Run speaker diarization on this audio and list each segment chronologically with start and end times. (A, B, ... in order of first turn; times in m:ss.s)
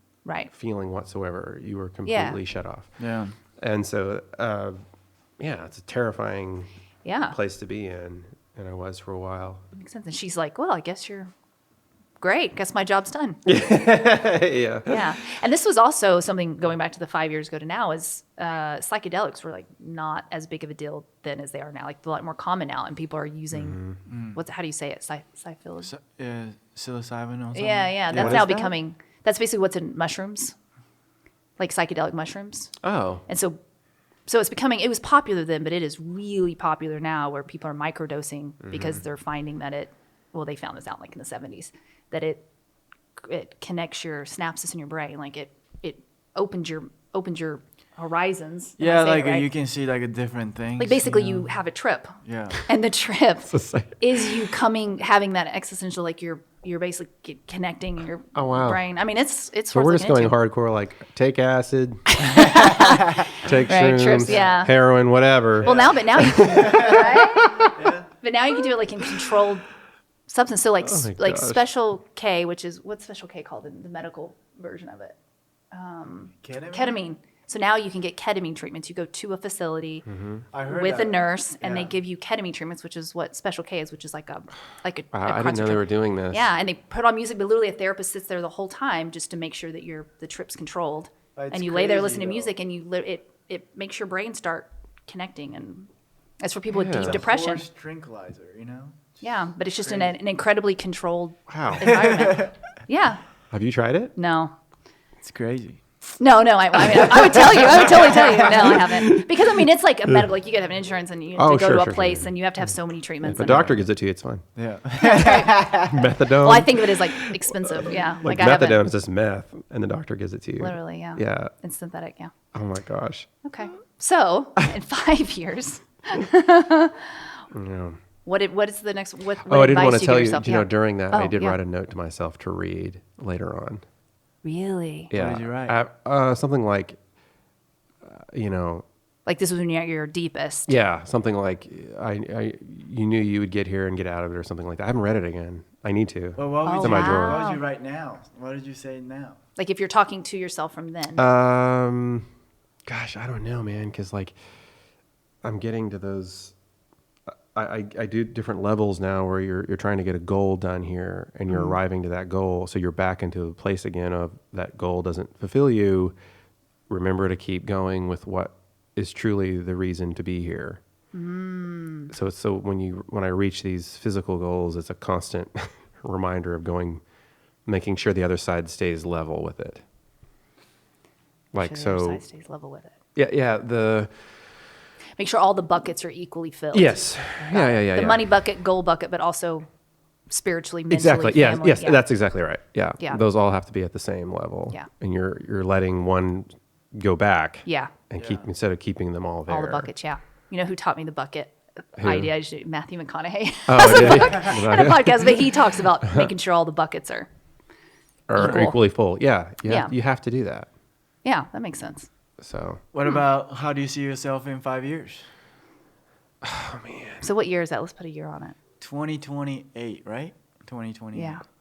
0:00.2-0:00.5 A
0:00.5-0:03.0 B
0:02.1-0:02.4 A
0:03.0-0:03.3 C
0:03.6-0:04.8 B
0:05.4-0:06.7 B
0:07.0-0:07.4 A
0:07.3-0:09.6 B
0:09.7-0:11.3 A
0:12.2-0:13.4 A
0:13.4-0:15.0 B
0:14.9-0:23.8 A
0:23.5-0:24.0 B
0:24.1-0:24.4 C
0:24.3-0:25.9 A
0:25.8-0:28.5 C
0:27.5-0:30.5 A
0:28.1-0:28.8 B
0:31.6-0:32.7 A
0:32.8-0:33.2 B
0:33.3-0:33.6 A
0:34.3-0:42.4 A
0:38.6-0:39.0 B
0:43.2-0:49.5 A
0:48.8-0:51.6 C
0:50.8-1:00.4 A
0:52.2-0:52.6 C
0:53.5-0:54.5 B
0:58.4-0:58.8 B
0:59.7-1:07.7 B
1:02.2-1:04.7 A
1:04.3-1:04.7 C
1:05.6-1:09.7 A
1:05.6-1:08.1 C
1:10.3-1:15.2 A
1:10.8-1:11.7 B
1:15.7-1:20.1 A
1:16.4-1:17.0 C
1:20.1-1:20.4 B
1:20.5-1:22.0 C
1:20.6-1:35.9 A
1:25.1-1:26.5 B
1:31.4-1:32.5 C
1:36.4-1:37.7 A
1:36.7-1:37.2 B
1:37.0-1:40.2 C
1:39.2-1:43.2 A
1:41.5-1:41.9 B
1:41.8-1:42.5 C
1:43.5-1:44.2 B
1:44.2-1:44.5 A
1:45.2-1:45.8 C
1:46.2-1:53.8 A
1:46.8-1:50.2 B
1:51.4-1:52.3 B
1:53.2-1:54.4 B
1:54.6-1:56.0 C
1:55.0-1:55.7 A
1:55.9-2:01.5 B
1:56.3-1:58.8 A
2:00.6-2:02.3 A
2:02.5-2:03.3 B
2:03.4-2:07.2 A
2:07.5-2:08.0 B
2:08.3-2:11.6 A
2:09.4-2:13.8 B
2:14.4-2:15.1 A
2:15.1-2:17.0 B
2:15.1-2:15.8 C
2:18.0-2:18.8 B
2:19.3-2:20.7 A
2:20.7-2:27.5 B
2:26.4-2:29.4 C
2:26.6-2:27.6 A
2:29.6-2:31.2 A
2:31.2-2:32.3 B
2:32.9-2:34.4 B
2:35.4-2:36.6 B
2:37.5-2:46.2 B
2:41.5-2:41.8 A
2:46.9-2:50.8 B
2:51.1-2:52.1 A
2:52.1-2:57.0 B
2:57.7-2:59.8 B
3:01.5-3:02.2 B
3:01.6-3:03.0 A
3:03.2-3:04.1 B
3:05.2-3:09.7 A
3:06.7-3:08.3 B
3:10.3-3:12.1 A
3:10.9-3:19.9 B
3:17.7-3:17.9 A
3:18.2-3:18.4 C
3:19.5-3:27.3 A
3:22.0-3:22.3 B
3:23.7-3:26.3 B
3:28.3-3:30.7 B
3:28.4-3:28.8 A
3:29.6-3:29.9 A
3:31.2-3:32.1 A
3:32.4-3:32.8 B
3:32.9-3:35.3 C
3:36.4-3:37.3 B
3:37.2-3:38.6 A
3:38.8-3:41.4 C
3:41.1-3:41.4 A